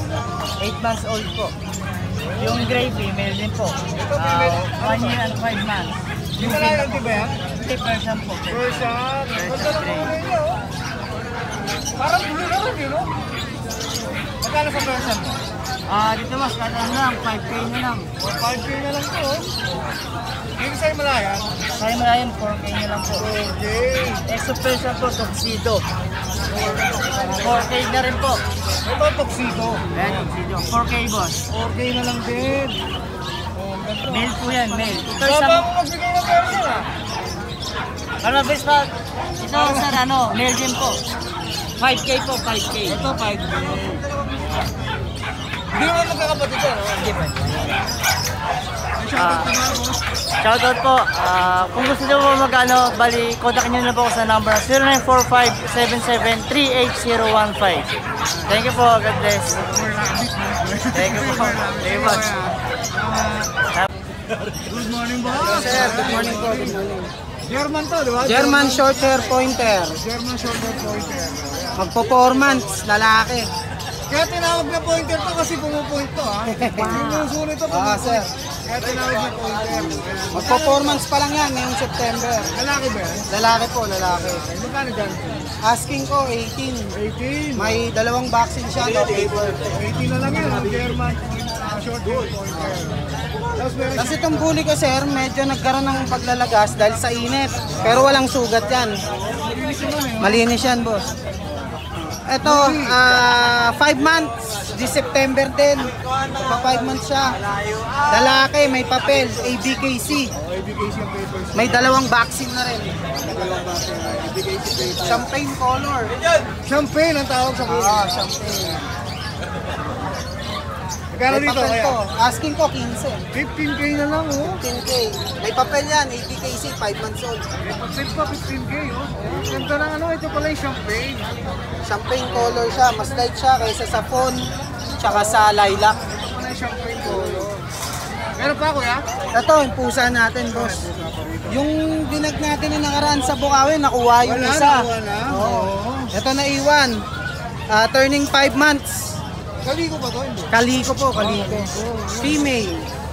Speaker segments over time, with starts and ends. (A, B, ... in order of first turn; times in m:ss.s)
0:00.6-0:01.5 A
0:02.4-0:10.2 A
0:03.9-0:05.2 B
0:06.4-0:07.4 B
0:08.5-0:10.6 B
0:12.0-0:13.1 B
0:14.4-0:15.4 B
0:15.9-0:18.1 A
0:18.2-0:19.5 B
0:20.6-0:21.5 B
0:21.7-0:23.3 A
0:23.2-0:24.2 B
0:24.3-0:25.8 A
0:27.1-0:27.5 B
0:27.3-0:28.4 A
0:28.8-0:30.3 B
0:29.9-0:31.4 A
0:31.5-0:32.8 B
0:33.5-0:36.9 B
0:34.0-0:35.7 A
0:38.2-0:41.0 A
0:39.5-0:40.0 B
0:41.8-0:43.0 A
0:42.9-0:44.0 B
0:45.7-0:47.2 B
0:47.0-0:47.3 A
0:49.0-0:50.0 B
0:49.1-0:49.5 A
0:50.4-0:57.9 A
0:58.4-0:59.6 A
0:59.6-1:03.5 B
1:00.9-1:02.3 A
1:04.6-1:06.8 B
1:05.4-1:07.1 C
1:07.4-1:08.9 B
1:08.2-1:10.0 C
1:10.0-1:11.7 B
1:11.7-1:13.5 C
1:14.1-1:20.9 B
1:16.5-1:18.3 C
1:20.3-1:22.5 C
1:22.5-1:23.3 B
1:23.3-1:24.4 C
1:24.3-1:25.5 B
1:25.6-1:26.9 C
1:26.9-1:27.8 B
1:27.5-1:29.7 C
1:29.7-1:34.2 B
1:33.9-1:39.0 C
1:39.4-1:40.4 B
1:40.2-1:41.0 C
1:42.3-1:47.4 C
1:42.4-1:43.2 B
1:48.0-1:50.3 C
1:50.4-1:51.8 B
1:51.5-1:53.0 C
1:53.2-1:55.2 B
1:55.0-1:56.1 C
1:56.6-1:58.1 B
1:57.6-1:58.8 C
2:01.1-2:02.0 B
2:01.3-2:03.2 C
2:03.3-2:04.6 B
2:04.4-2:07.4 C
2:07.6-2:11.3 B
2:11.8-2:14.4 C
2:15.0-2:16.0 C
2:16.2-2:17.6 B
2:18.4-2:19.0 B
2:19.3-2:20.9 C
2:20.5-2:21.6 B
2:21.5-2:27.0 C
2:24.2-2:26.1 B
2:27.7-2:29.2 C
2:29.6-2:30.5 B
2:30.5-2:32.9 C
2:31.2-2:32.3 B